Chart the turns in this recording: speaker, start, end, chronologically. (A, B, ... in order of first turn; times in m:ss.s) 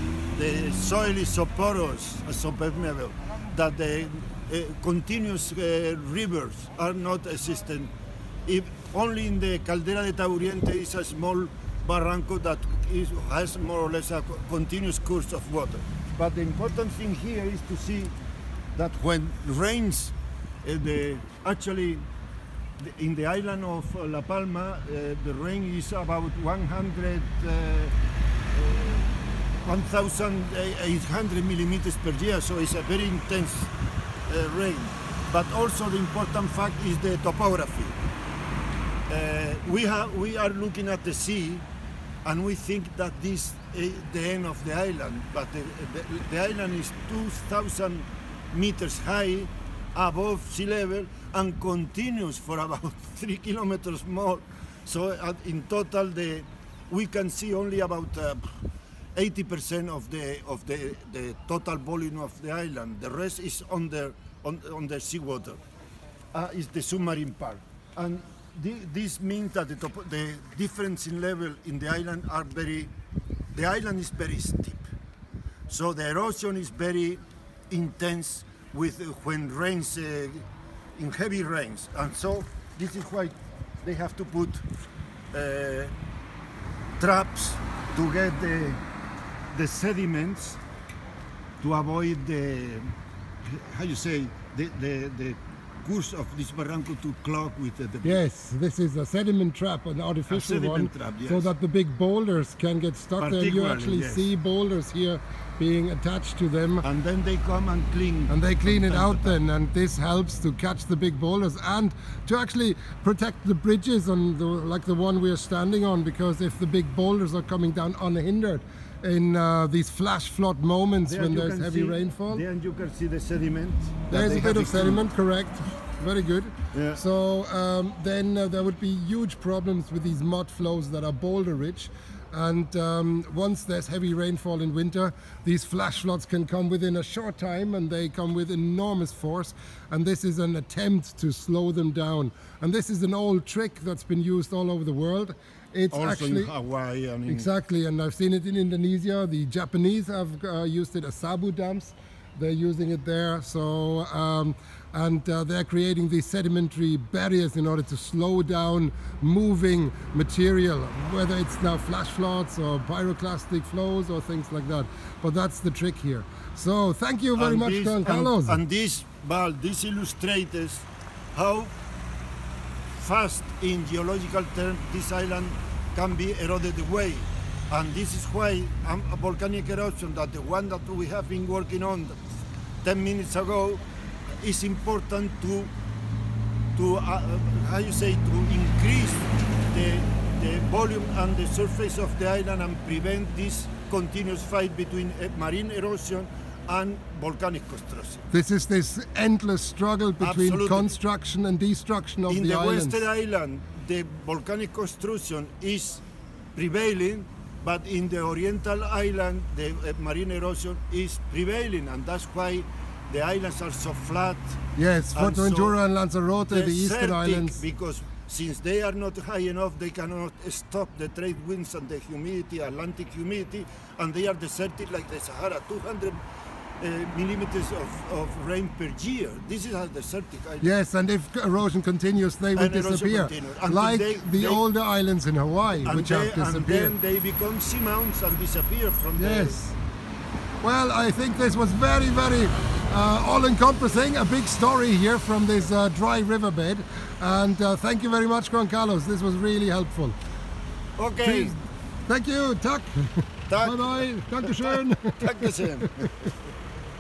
0:00.3-0:07.9 A
0:08.4-0:18.2 A
0:18.7-0:22.1 A
0:22.8-0:27.9 A
0:28.5-0:33.7 A
0:34.3-0:38.0 A
0:39.1-0:41.6 A
0:42.2-0:58.5 A
0:59.1-1:05.6 A
1:06.3-1:12.9 A
1:13.5-1:14.9 A
1:15.7-1:24.6 A
1:25.3-1:25.9 A
1:27.0-1:28.8 A
1:29.5-1:30.6 A
1:31.6-1:32.9 A
1:33.4-1:38.2 A
1:38.0-1:46.8 B
1:40.2-1:41.5 A
1:43.2-1:44.3 A
1:46.8-1:49.4 A
1:48.3-2:02.4 B
2:01.0-2:05.0 A
2:04.1-2:26.5 B
2:06.7-2:07.0 A
2:25.9-2:27.5 A
2:27.3-2:48.6 B
2:47.4-2:51.8 A
2:53.0-3:05.7 A
3:06.7-3:18.2 A
3:18.3-3:23.0 B
3:20.2-3:21.0 A
3:22.3-3:26.0 A
3:26.5-3:34.6 A
3:34.8-3:37.6 B
3:35.1-3:35.8 A
3:36.5-3:46.2 A
3:46.8-3:50.7 A
3:50.6-3:57.0 B
3:52.5-3:54.6 A
3:55.8-3:59.6 A
3:59.2-3:59.8 B
4:00.6-4:10.2 B
4:11.0-4:11.6 A
4:11.2-4:15.9 B
4:13.5-4:16.3 A